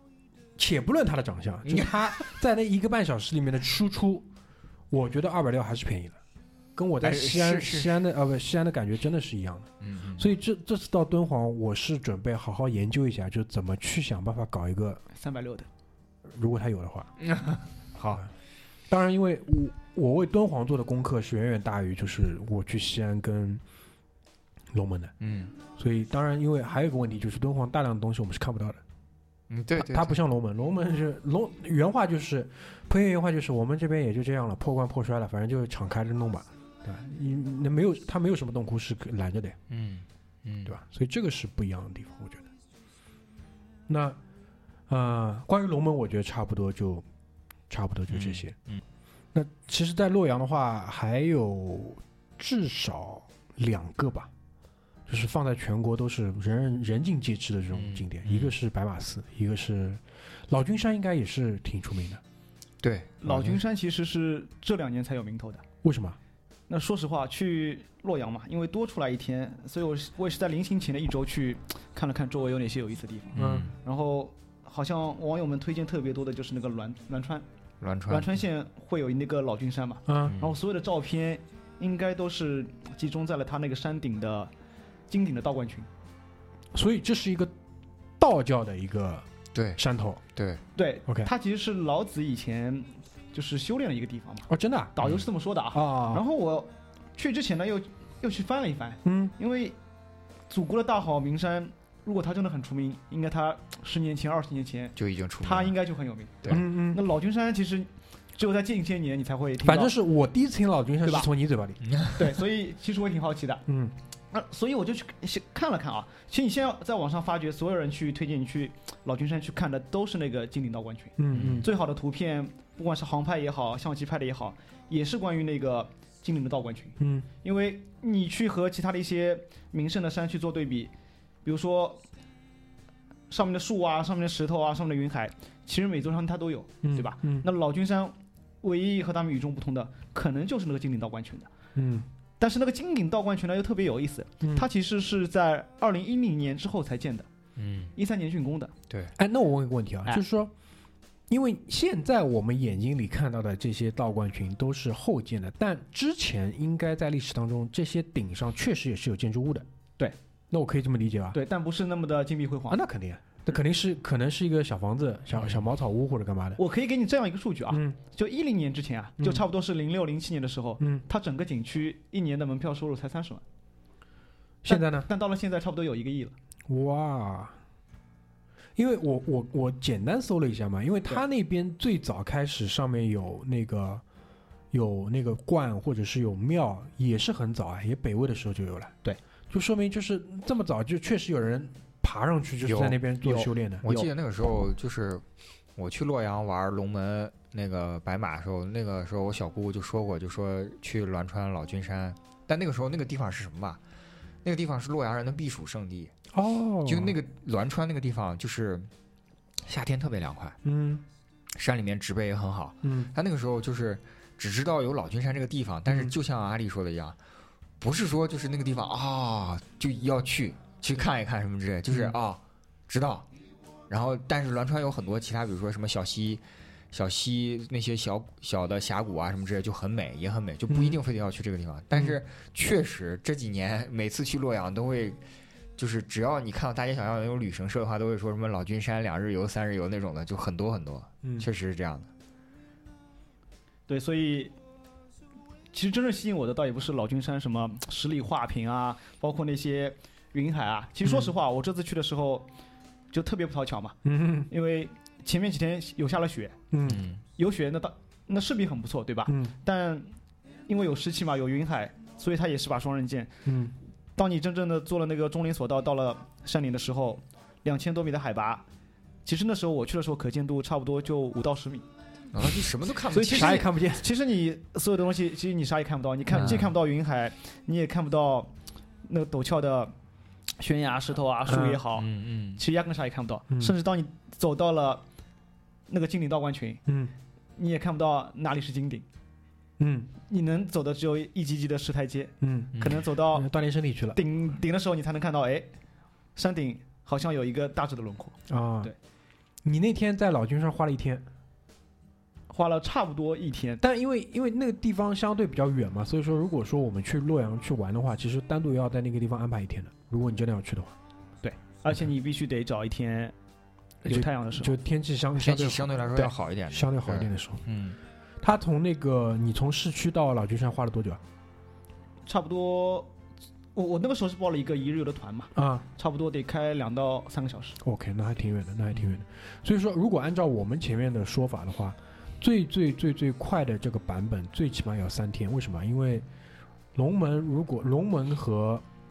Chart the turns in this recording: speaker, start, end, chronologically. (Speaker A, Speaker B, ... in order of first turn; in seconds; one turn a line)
Speaker A: 0.6-4.3
Speaker B: 1.6-2.3
Speaker A: 4.9-6.2
Speaker A: 6.8-15.0
Speaker B: 7.0-8.0
Speaker B: 9.8-10.3
Speaker C: 15.1-15.7
Speaker A: 16.3-17.1
Speaker B: 17.2-18.2
Speaker A: 18.9-23.6
Speaker A: 24.7-25.1
Speaker B: 25.2-25.5
Speaker A: 25.8-28.8
Speaker B: 29.5-30.2
Speaker A: 29.7-39.6
Speaker B: 39.7-40.7
Speaker A: 40.7-42.5
Speaker A: 43.9-44.2
Speaker A: 44.9-47.1
Speaker A: 47.7-48.5
Speaker B: 48.1-48.8
Speaker A: 49.3-54.3
Speaker A: 55.1-62.2
Speaker B: 57.7-58.6
Speaker B: 62.8-63.6
Speaker C: 63.2-65.6
Speaker A: 65.8-66.2
Speaker C: 66.7-77.5
Speaker B: 73.3-73.7
Speaker A: 73.4-73.7
Speaker B: 77.8-78.3
Speaker C: 78.1-84.5
Speaker A: 80.1-80.4
Speaker B: 80.2-80.5
Speaker C: 85.1-85.9
Speaker A: 86.7-87.5
Speaker A: 88.2-90.2
Speaker B: 89.5-89.8
Speaker B: 90.3-90.6
Speaker C: 90.8-99.8
Speaker A: 94.5-95.0
Speaker A: 95.7-96.2
Speaker A: 99.0-99.3
Speaker C: 100.5-109.9
Speaker B: 105.0-105.8
Speaker A: 106.5-107.0
Speaker A: 109.6-111.8
Speaker B: 111.8-112.2
Speaker C: 112.2-113.6
Speaker A: 113.7-114.0
Speaker C: 114.3-130.9
Speaker A: 121.2-121.7
Speaker B: 121.3-121.7
Speaker A: 127.0-127.3
Speaker C: 131.4-132.0
Speaker C: 133.3-141.5
Speaker A: 136.8-137.5
Speaker A: 141.8-142.1
Speaker C: 142.4-147.3
Speaker A: 144.4-144.7
Speaker B: 147.6-147.9
Speaker C: 148.0-148.7
Speaker B: 148.9-149.1
Speaker A: 149.2-150.5
Speaker A: 151.3-159.7
Speaker A: 160.5-161.4
Speaker C: 161.3-162.8
Speaker A: 162.7-166.6
Speaker B: 165.4-165.6
Speaker C: 166.6-173.4
Speaker A: 167.7-168.0
Speaker A: 169.2-169.4
Speaker A: 170.8-171.1
Speaker A: 174.6-175.1
Speaker C: 174.7-176.3
Speaker A: 176.7-177.6
Speaker A: 178.8-184.0
Speaker A: 184.7-188.9
Speaker A: 189.5-193.8
Speaker B: 192.6-193.0
Speaker C: 193.2-194.1
Speaker B: 193.8-195.2
Speaker B: 195.8-203.8
Speaker B: 204.4-206.1
Speaker A: 206.3-207.2
Speaker B: 206.9-208.9
Speaker B: 209.7-210.6
Speaker A: 210.6-211.1
Speaker B: 211.6-217.2
Speaker A: 212.8-213.1
Speaker B: 217.8-223.3
Speaker A: 221.9-222.2
Speaker B: 223.9-235.2
Speaker A: 230.7-231.0
Speaker B: 235.8-242.1
Speaker C: 243.9-244.5
Speaker C: 245.7-252.5
Speaker C: 253.1-254.0
Speaker A: 254.0-254.5
Speaker C: 254.5-256.6
Speaker A: 256.7-257.1
Speaker B: 256.9-257.2
Speaker C: 257.4-260.1
Speaker A: 259.3-259.5
Speaker C: 260.7-263.3
Speaker A: 263.4-263.8
Speaker C: 264.2-268.6
Speaker C: 269.2-271.9
Speaker B: 272.3-273.7
Speaker C: 273.1-278.5
Speaker A: 273.3-274.1
Speaker B: 276.3-276.7
Speaker C: 279.1-279.9
Speaker C: 280.6-285.0
Speaker A: 281.5-281.8
Speaker B: 281.9-282.6
Speaker C: 285.9-286.8
Speaker A: 286.9-287.1
Speaker C: 287.6-289.1
Speaker A: 289.8-290.1
Speaker C: 290.3-293.5
Speaker A: 292.4-292.8
Speaker B: 292.8-293.0
Speaker A: 293.3-294.2
Speaker C: 294.1-295.7
Speaker C: 296.4-299.0
Speaker A: 298.5-298.9
Speaker A: 299.6-301.3
Speaker C: 302.5-303.8
Speaker A: 303.8-311.0
Speaker C: 311.4-313.4
Speaker A: 314.0-317.6
Speaker C: 314.1-314.8
Speaker B: 315.4-318.0
Speaker A: 318.4-321.2
Speaker C: 322.3-323.1
Speaker C: 323.8-327.8
Speaker A: 325.6-325.9
Speaker A: 327.8-336.3
Speaker B: 328.9-329.2
Speaker A: 336.9-338.9